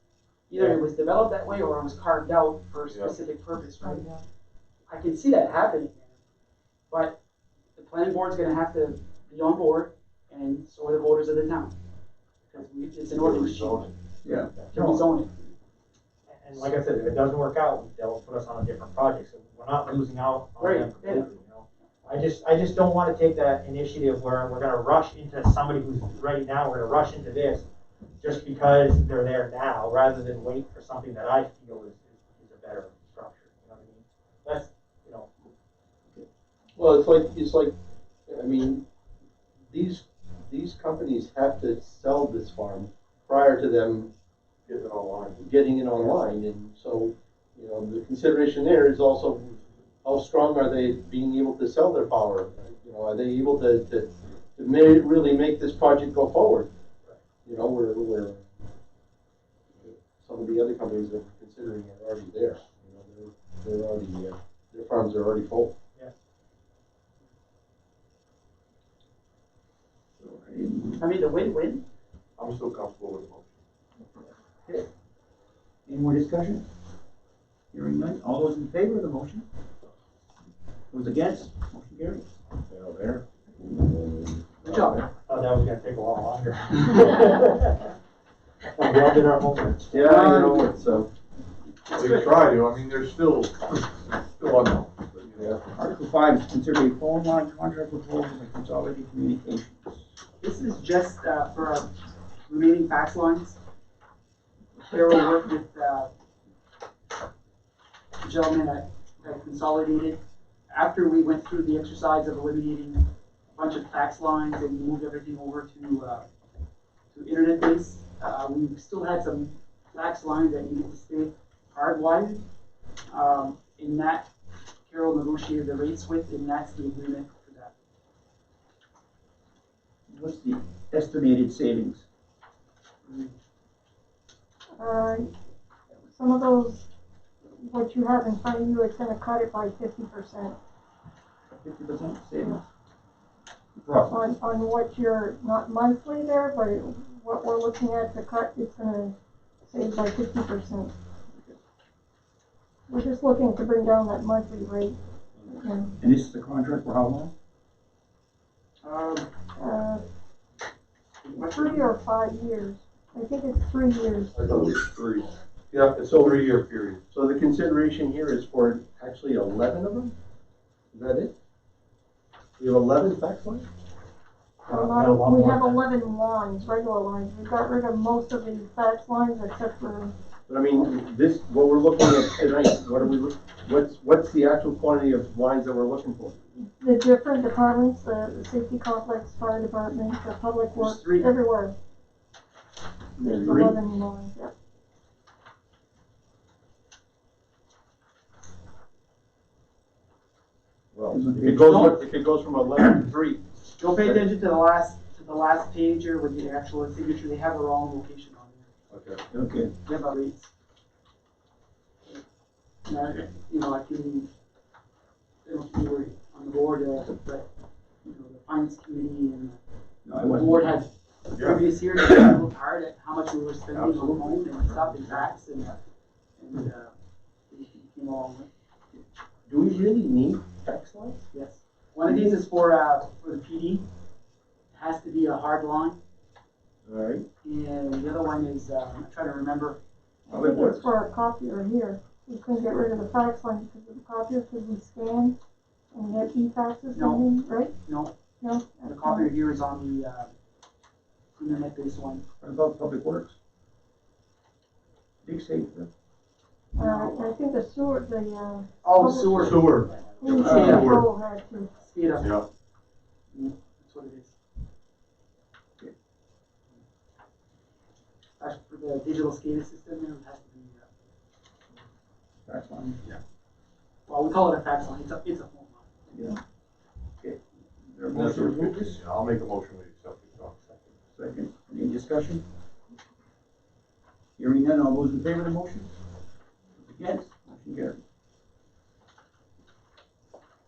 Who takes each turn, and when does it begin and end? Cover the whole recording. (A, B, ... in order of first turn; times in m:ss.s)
0:00.5-0:04.1 A
0:02.9-0:03.1 B
0:04.9-0:06.2 A
0:06.9-0:07.2 A
0:07.8-0:11.7 A
0:12.5-0:13.9 A
0:13.1-0:13.9 B
0:14.2-0:14.5 C
0:14.7-0:15.5 A
0:14.7-0:15.0 D
0:16.3-0:27.6 D
0:20.6-0:21.3 A
0:28.2-0:35.3 D
0:36.7-0:37.7 E
0:38.3-0:38.8 E
0:39.7-0:44.1 E
0:44.7-0:45.4 B
0:45.4-0:56.7 E
0:57.4-0:58.6 E
0:59.8-1:05.7 E
1:10.2-1:11.0 C
1:11.0-1:11.8 A
1:12.4-1:13.6 B
1:15.9-1:16.6 C
1:17.7-1:19.4 C
1:20.9-1:22.2 C
1:22.7-1:25.0 E
1:24.6-1:25.0 A
1:25.1-1:27.7 D
1:28.7-1:30.1 D
1:29.9-1:31.1 E
1:30.0-1:30.8 A
1:31.9-1:32.6 A
1:31.9-1:35.6 B
1:35.7-1:40.0 C
1:40.4-1:43.6 A
1:44.8-1:46.1 A
1:48.2-1:56.2 A
1:57.1-2:02.4 A
2:03.1-2:04.3 A
2:04.9-2:07.7 A
2:10.1-2:12.0 C
2:13.0-2:13.3 A
2:14.8-2:15.3 F
2:16.0-2:16.8 F
2:17.5-2:20.5 F
2:21.5-2:22.6 C
2:23.8-2:24.1 C
2:24.1-2:29.1 F
2:29.7-2:30.9 F
2:32.9-2:35.9 F
2:36.0-2:37.3 C
2:38.8-2:39.3 A
2:39.6-2:40.0 F
2:41.2-2:41.9 A
2:41.4-2:44.7 F
2:44.4-2:47.0 B
2:45.9-2:46.4 E
2:47.1-2:50.1 E
2:50.9-2:51.3 E
2:52.6-2:53.7 E
2:54.6-2:55.8 D
2:54.6-3:00.1 F
3:00.5-3:06.4 E
3:06.6-3:11.7 F
3:10.7-3:11.4 A
3:13.2-3:13.8 E
3:13.2-3:13.7 A
3:13.2-3:14.5 F
3:20.9-3:24.2 E
3:21.1-3:22.0 C
3:23.8-3:28.7 A
3:29.3-3:29.7 C
3:29.8-3:30.5 A
3:32.8-3:34.3 A
3:35.4-3:37.5 A
3:38.0-3:39.6 A
3:40.0-3:40.8 C
3:40.2-3:45.8 A
3:41.3-3:41.6 B
3:43.8-3:44.4 E
3:46.4-3:46.9 A
3:47.5-3:48.5 A
3:49.5-3:51.2 E
3:51.3-3:53.9 A
3:54.7-3:56.0 A
3:56.8-3:57.2 E
3:57.4-3:59.8 A
4:00.3-4:00.8 C
4:00.3-4:05.3 F
4:05.9-4:07.7 F
4:06.9-4:08.1 A
4:08.4-4:09.3 F
4:08.8-4:10.3 A
4:11.4-4:12.2 A
4:12.4-4:13.3 C
4:15.2-4:15.9 C
4:16.7-4:21.7 F
4:16.8-4:17.3 A
4:18.8-4:19.8 A
4:19.4-4:21.0 B
4:20.3-4:21.0 A
4:20.4-4:20.8 C
4:20.6-4:21.0 E
4:21.8-4:22.4 A
4:22.2-4:22.4 B
4:23.3-4:24.3 A
4:28.4-4:30.9 A
4:32.4-4:33.0 C
4:34.1-4:35.9 A
4:36.1-4:36.4 C
4:37.2-4:39.0 C
4:38.1-4:38.7 E
4:38.2-4:40.5 B
4:41.1-4:42.4 C
4:44.4-4:45.9 C
4:46.8-4:48.0 C